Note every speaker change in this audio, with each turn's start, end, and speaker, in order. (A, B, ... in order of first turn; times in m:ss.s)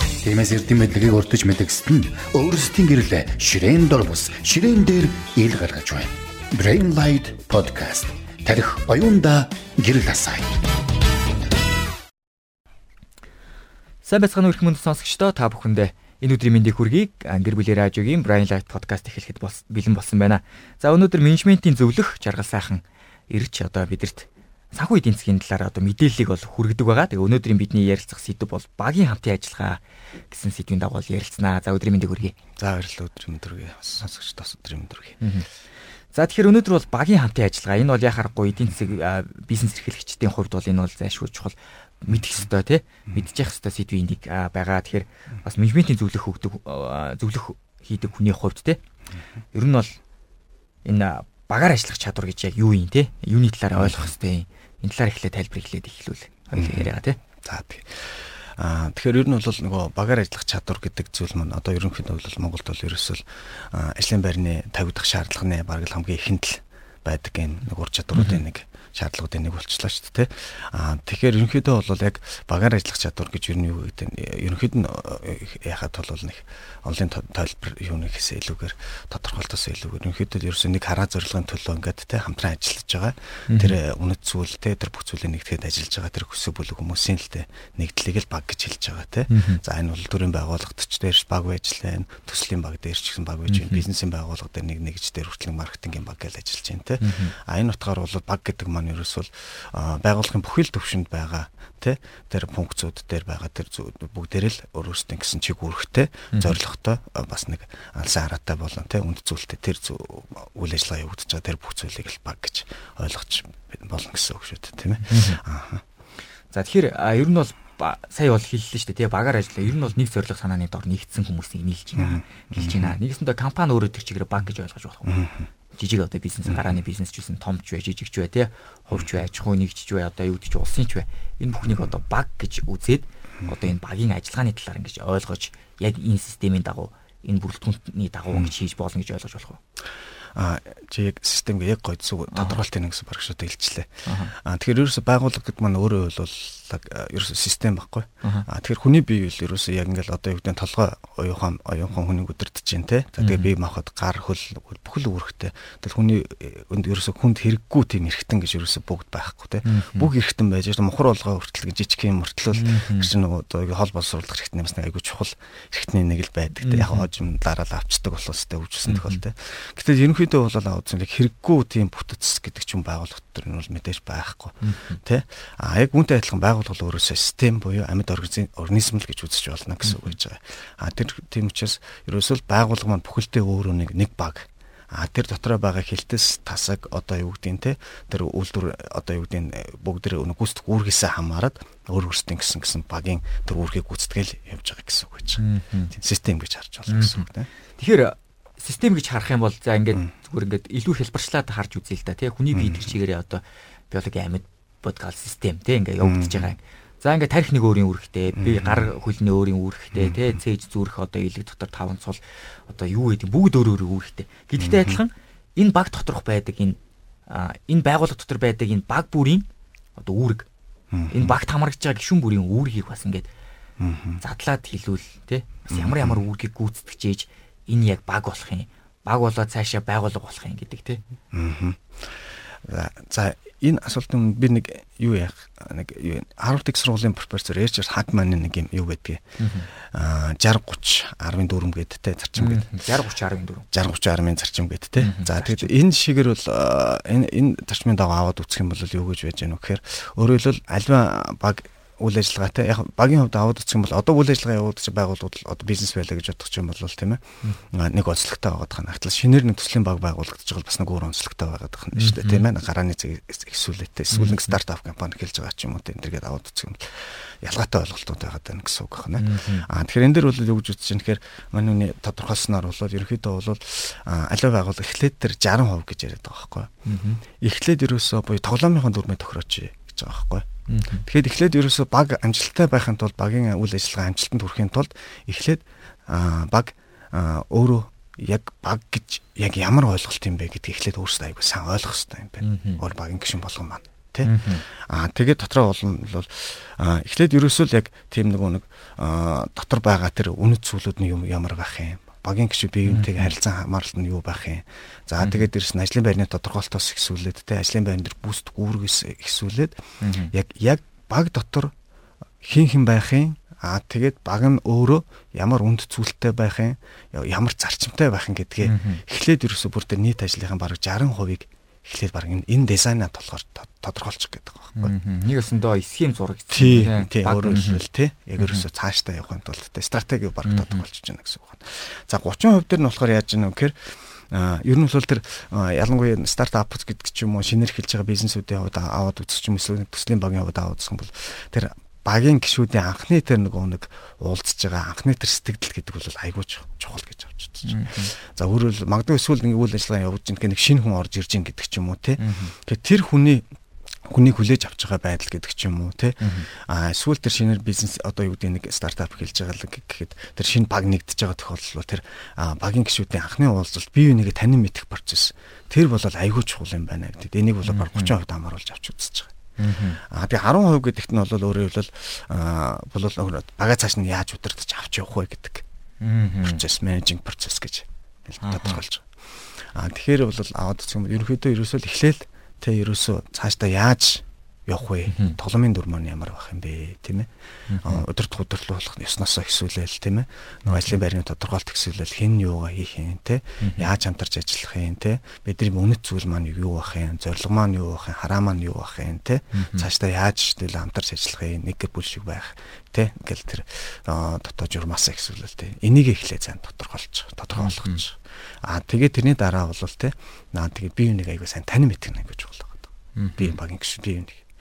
0:00.2-0:10.6 A
0:14.1-0:32.4 B
0:32.6-0:35.2 C
0:35.2-0:35.5 B
0:36.1-0:48.8 B
0:49.5-0:50.0 B
0:50.8-0:57.2 B
0:53.7-0:54.1 C
0:56.5-0:56.9 C
0:57.4-1:55.8 C
1:08.1-1:08.4 B
1:23.5-1:23.8 B
1:29.3-1:29.6 B
1:33.5-1:33.8 B
1:37.0-1:37.3 B
1:46.3-1:46.6 B
1:55.1-1:55.4 B
1:56.5-2:05.2 B
2:02.0-2:03.0 C
2:05.1-2:05.5 C
2:05.8-2:19.6 B
2:06.5-2:06.8 C
2:20.3-3:17.5 C
2:22.3-2:22.6 B
2:24.1-2:24.3 B
2:33.2-2:33.5 B
2:39.6-2:40.1 B
2:42.5-2:43.1 B
2:46.6-2:47.1 B
2:48.9-2:49.2 B
2:54.6-2:55.0 B
2:59.8-3:00.1 B
3:15.4-3:15.9 B
3:16.9-3:17.2 B
3:17.8-3:36.8 B
3:22.5-3:22.9 C
3:26.0-3:26.5 C
3:28.4-3:28.9 C
3:29.9-3:30.4 C
3:34.6-3:35.0 C
3:37.3-3:39.4 B
3:40.0-3:40.5 B
3:40.9-3:41.4 C
3:41.1-3:43.3 B
3:43.8-3:44.2 C
3:44.2-3:51.0 B
3:45.7-3:46.2 C
3:51.3-4:02.8 C
3:59.4-3:59.7 B
4:02.4-4:03.7 B
4:03.7-4:36.7 C
4:05.0-4:05.7 B
4:22.0-4:22.5 B
4:24.1-4:24.6 B
4:29.2-4:29.7 B
4:36.9-4:37.2 B
4:37.4-4:40.5 C
4:40.7-4:41.0 B
4:41.0-5:09.8 C
4:52.4-4:52.8 B
4:54.2-4:54.6 B
5:02.9-5:03.3 B
5:05.2-5:05.5 B
5:10.0-5:10.3 B
5:10.3-5:11.7 C
5:12.4-5:24.9 C
5:18.6-5:19.0 B
5:24.8-5:27.8 B
5:26.5-5:53.5 C
5:28.4-5:28.6 B
5:30.5-5:30.8 B
5:47.6-5:48.1 B
5:52.2-5:52.5 B
5:54.1-6:09.3 C
5:56.2-5:56.5 B
6:07.6-6:08.1 B
6:09.6-6:10.0 B
6:10.0-6:15.6 C
6:16.0-6:16.6 B
6:16.4-6:27.3 C
6:18.4-6:18.8 B
6:25.1-6:25.4 B
6:27.7-6:28.0 B
6:27.8-6:54.4 C
6:30.7-6:31.0 B
6:33.6-6:33.9 B
6:39.5-6:39.9 B
6:47.6-6:48.0 B
6:53.2-6:53.6 B